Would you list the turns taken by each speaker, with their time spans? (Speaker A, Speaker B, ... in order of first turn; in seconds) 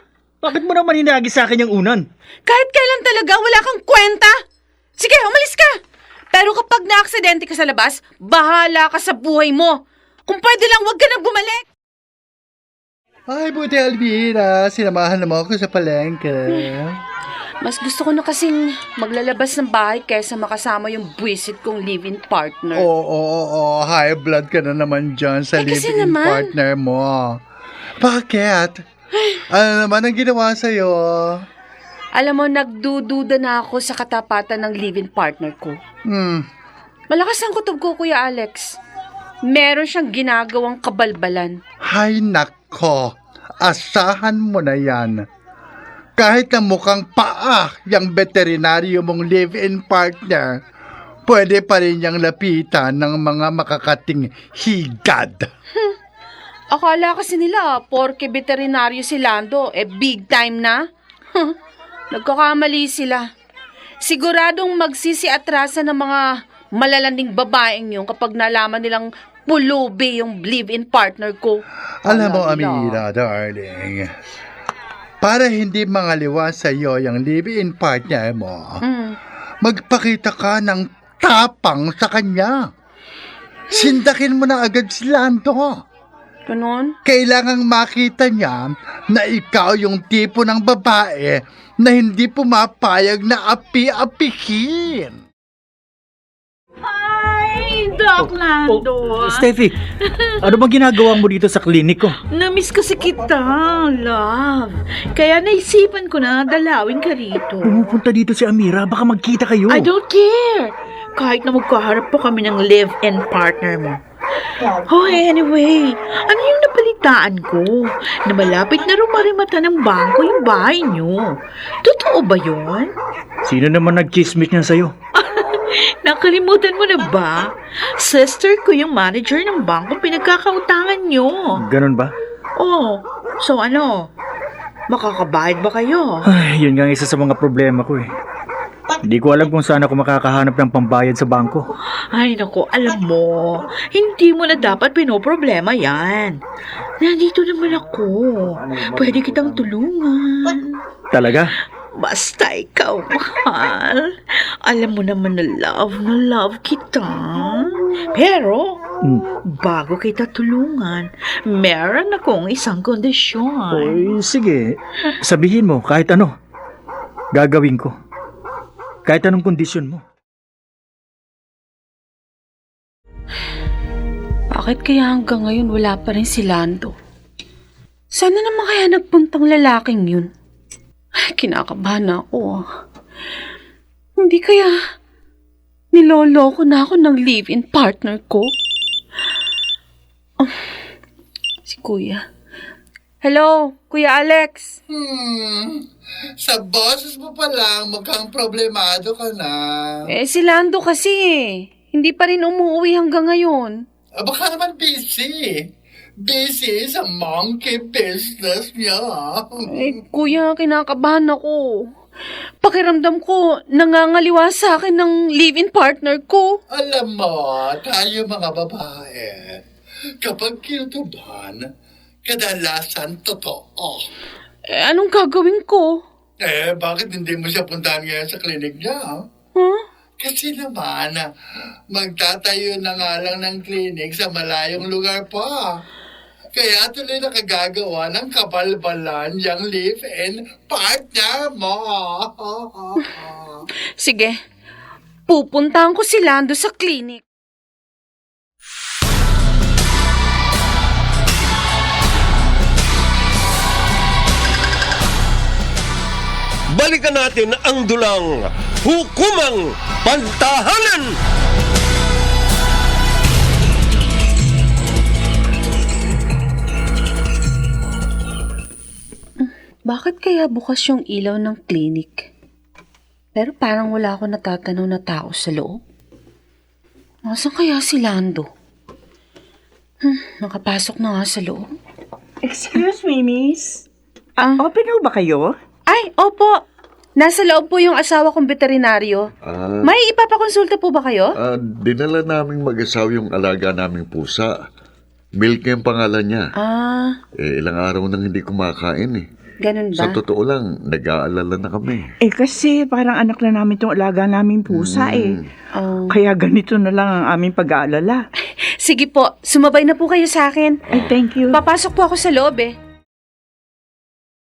Speaker A: 0.4-2.0, 98.2-99.7, 100.4-102.1, 107.6-109.9, 123.4-124.9, 131.6-132.1, 136.2-138.1, 139.0-141.7, 151.1-151.5, 163.7-166.3, 167.3-167.9, 169.0-170.0
Speaker B: 2.5-4.3, 5.0-5.7, 6.3-11.6, 17.6-22.9, 25.6-26.5, 32.1-35.8, 37.1-38.8, 39.5-41.6, 56.7-60.8, 62.1-63.2, 64.0-66.2, 66.8-73.0, 78.8-79.1, 86.5-86.9, 174.5-176.9, 178.1-180.3, 181.2-182.6, 184.2-184.8, 185.9-188.5, 191.7-192.2, 193.2-194.7, 200.1-203.8, 209.7-211.9, 212.6-216.5, 224.7-226.0, 244.0-244.3, 245.3-247.2, 269.4-272.3, 273.4-275.8, 277.2-278.5, 280.0-281.6, 285.9-286.6, 287.2-289.2, 289.8-291.3, 296.6-297.1, 299.6-300.2, 305.8-306.1, 308.8-310.8, 311.5-312.7
Speaker C: 13.3-17.0, 22.8-27.2, 28.0-28.8, 29.5-31.2, 36.1-36.4, 41.9-43.1, 43.6-45.2, 46.2-50.5, 51.3-55.5, 72.1-74.0, 75.2-78.8, 79.6-82.6, 83.7-85.7, 87.0-95.2, 194.9-195.8, 196.4-200.0, 204.2-205.5, 206.2-209.6, 216.7-219.6, 220.2-221.6, 222.3-224.1, 226.4-229.1, 230.2-231.2, 231.9-235.6, 236.6-243.6
Speaker D: 96.8-99.5, 100.0-100.4, 102.2-107.9, 109.7-114.0, 114.8-121.2, 121.8-122.9, 125.1-131.6, 132.6-134.1, 134.9-136.2, 142.1-146.4, 147.0-150.8, 151.9-158.8, 159.3-164.1
Speaker E: 256.7-261.1
Speaker F: 282.4-283.8, 284.6-285.5, 302.2-305.4, 306.1-308.2, 311.0-311.6
Speaker G: 289.4-289.9, 291.3-294.6, 295.3-296.5, 297.4-299.3, 299.9-302.1, 304.7-305.4